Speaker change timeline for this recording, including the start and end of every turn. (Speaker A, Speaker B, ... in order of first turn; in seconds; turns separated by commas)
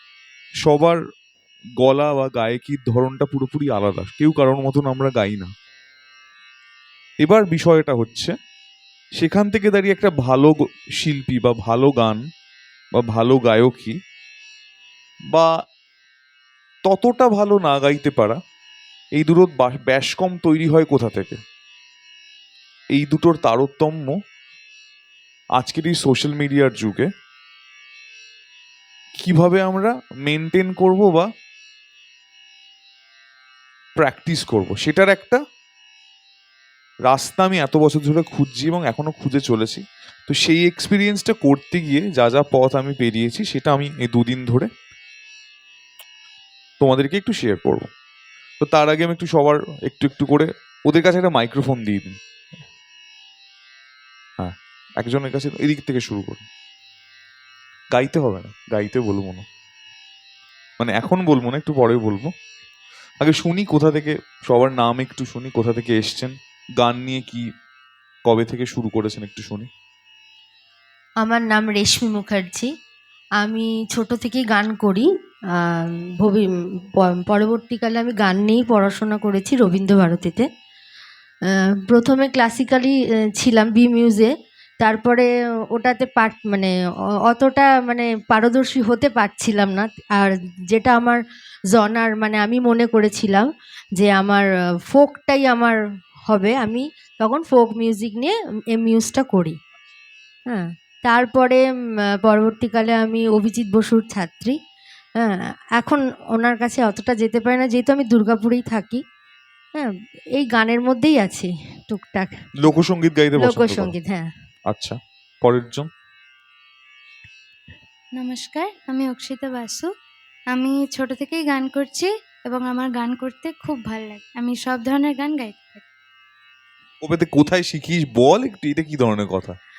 Speaker A: 0.6-1.0, Speaker A: 1.8-5.5, Speaker A: 7.2-8.3, Speaker A: 9.2-12.2, Speaker A: 12.9-13.9, Speaker A: 16.9-18.4, Speaker A: 19.2-21.4, Speaker A: 22.9-24.2, Speaker A: 25.6-27.1, Speaker A: 29.2-31.3, Speaker A: 34.0-35.4, Speaker A: 37.1-44.7, Speaker A: 46.8-47.9, Speaker A: 48.6-52.2, Speaker A: 54.4-56.4, Speaker A: 57.9-59.4, Speaker A: 60.8-62.3, Speaker A: 63.2-67.4, Speaker A: 68.3-69.7, Speaker B: 71.2-72.7, Speaker B: 73.4-76.5, Speaker B: 77.0-80.5, Speaker B: 81.5-86.7, Speaker B: 87.3-91.2, Speaker B: 91.7-93.5, Speaker B: 94.0-95.8, Speaker B: 96.3-99.6, Speaker B: 100.5-101.6, Speaker B: 102.1-104.5, Speaker B: 105.2-109.0, Speaker B: 109.7-112.4, Speaker A: 112.6-113.9, Speaker B: 113.3-114.3, Speaker A: 114.7-115.9, Speaker C: 118.2-119.9, Speaker C: 120.5-125.8, Speaker A: 127.0-129.6